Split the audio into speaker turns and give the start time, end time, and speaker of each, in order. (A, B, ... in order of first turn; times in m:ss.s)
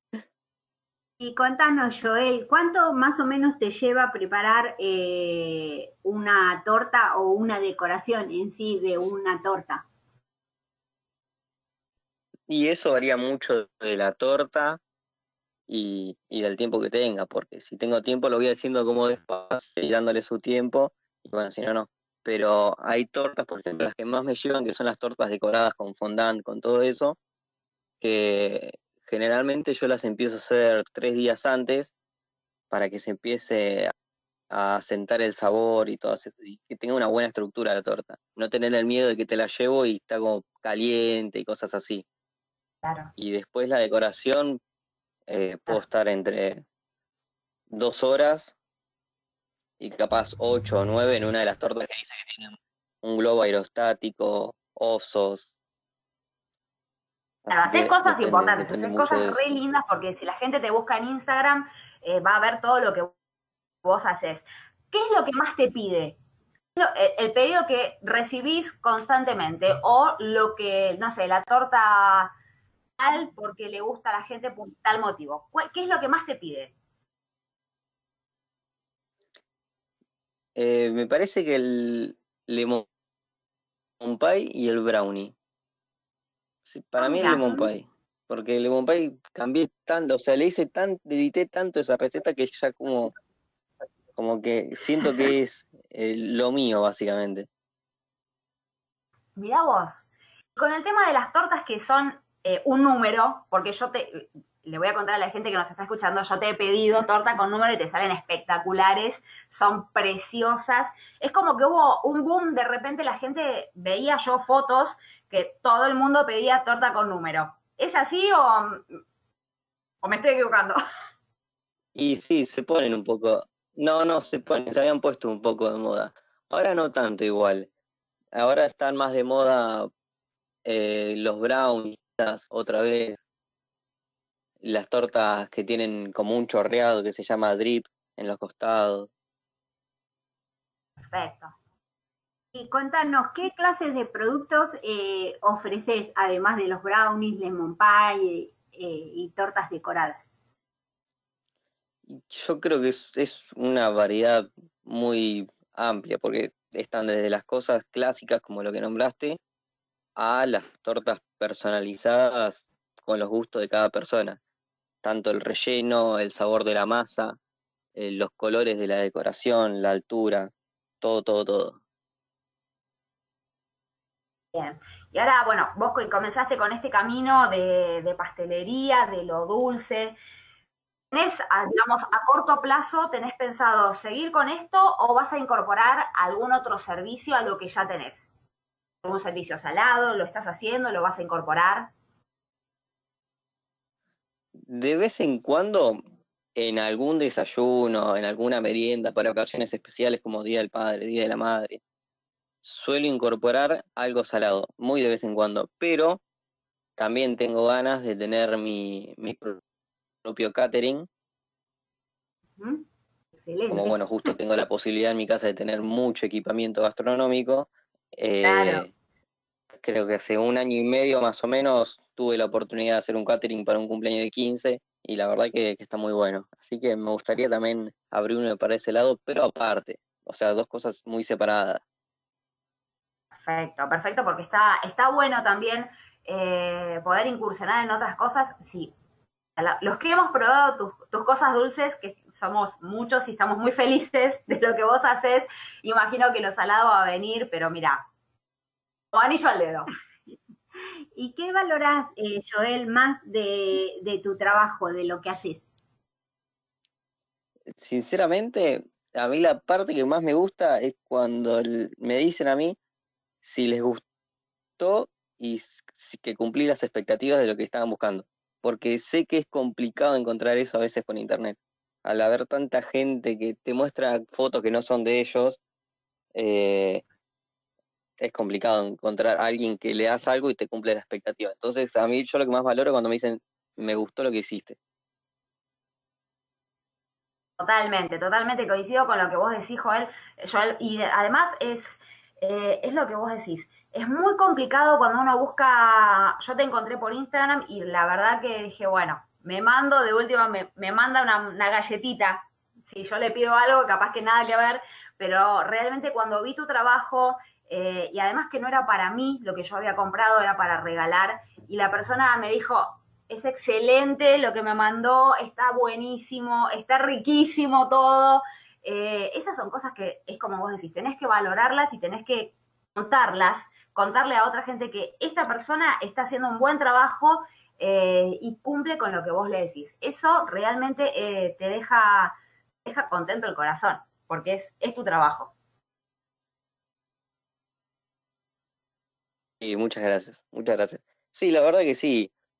0:01.2-0:09.8 A
0:12.5-0:14.8 B
0:15.7-0:27.2 B
0:28.0-0:31.9 B
0:32.7-0:33.9 B
0:34.5-0:42.0 B
0:42.8-0:43.1 C
0:43.2-0:44.6 B
0:45.3-0:46.6 B
0:47.7-0:48.5 B
0:49.8-0:55.5 B
0:57.4-0:59.4 B
0:57.5-1:03.1 C
1:03.8-1:06.2 C
1:06.8-1:12.3 C
1:13.0-1:16.7 C
1:20.6-1:22.8 B
1:24.0-1:25.3 B
1:26.6-1:33.1 B
1:27.0-1:27.6 C
1:34.2-1:37.5 B
1:39.4-1:40.0 C
1:40.6-1:59.0 C
2:00.0-2:00.8 C
2:01.9-2:07.7 B
2:08.3-2:09.9 B
2:10.6-2:13.2 B
2:14.6-2:19.1 B
2:21.1-2:21.5 C
2:22.5-2:30.2 A
2:32.1-2:39.4 B
2:40.2-2:44.4 B
2:45.0-2:47.4 B
2:48.0-2:51.8 B
2:54.5-3:00.2 C
3:01.1-3:08.3 C
3:09.0-3:11.9 C
3:14.6-3:16.0 B
3:16.6-3:21.8 B
3:22.6-3:26.2 B
3:27.0-3:29.6 B
3:30.2-3:31.1 B
3:32.6-3:32.8 A
3:33.4-3:33.9 A
3:33.7-3:38.9 B
3:38.4-3:38.8 C
3:39.7-3:51.8 B
3:53.4-3:58.9 C
3:59.6-4:08.0 C
4:09.1-4:09.9 C
4:11.2-4:15.6 A
4:17.7-4:22.8 B
4:23.4-4:24.0 B
4:24.8-4:35.6 B
4:36.3-4:37.0 B
4:38.2-4:44.8 B
4:47.6-5:35.5 C
5:39.6-5:42.3 B